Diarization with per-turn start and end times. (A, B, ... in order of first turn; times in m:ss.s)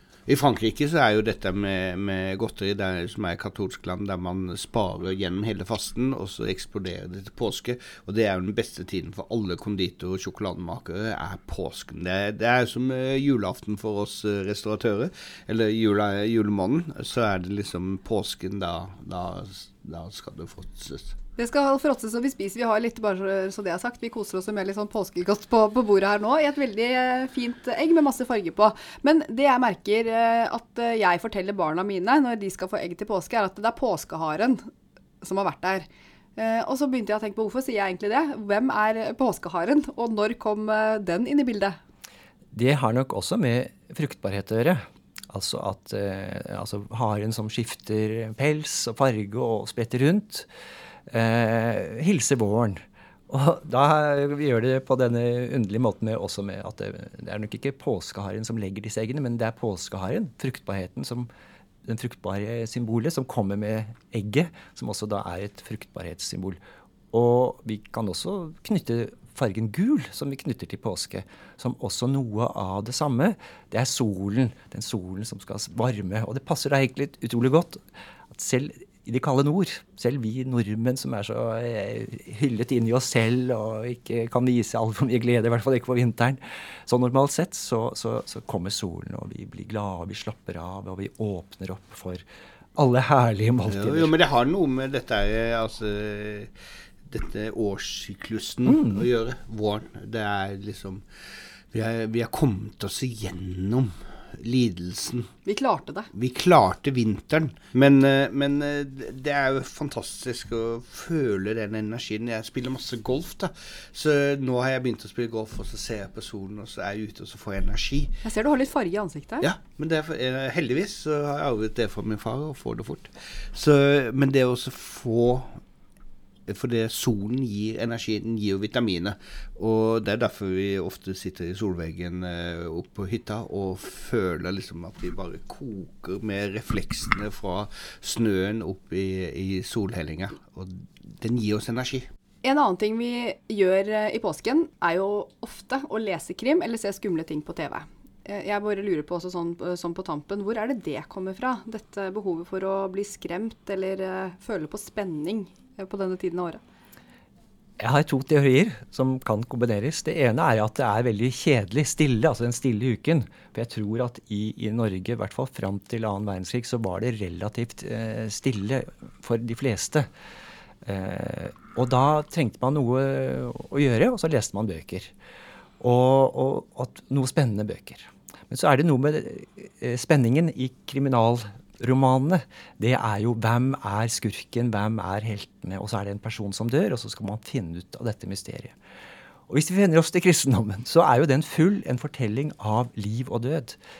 0:00.3-0:21.2 A
0:21.4-0:34.6 B
0:35.2-0:41.8 B
0:42.5-0:50.4 C
0:51.1-1:01.3 C
1:01.8-1:06.6 C
1:07.1-1:17.8 C
1:18.3-1:32.2 C
1:32.8-1:34.1 C
1:33.7-1:36.5 A
1:37.1-1:41.0 A
1:38.6-1:39.0 C
1:41.7-1:45.3 A
1:45.4-1:46.1 B
1:46.1-1:58.2 A
1:58.2-1:59.5 B
1:59.4-2:05.6 A
2:06.5-2:22.1 A
2:22.4-2:36.6 B
2:37.8-2:50.1 C
2:50.8-2:55.1 C
2:55.8-3:08.7 C
3:09.5-3:13.8 C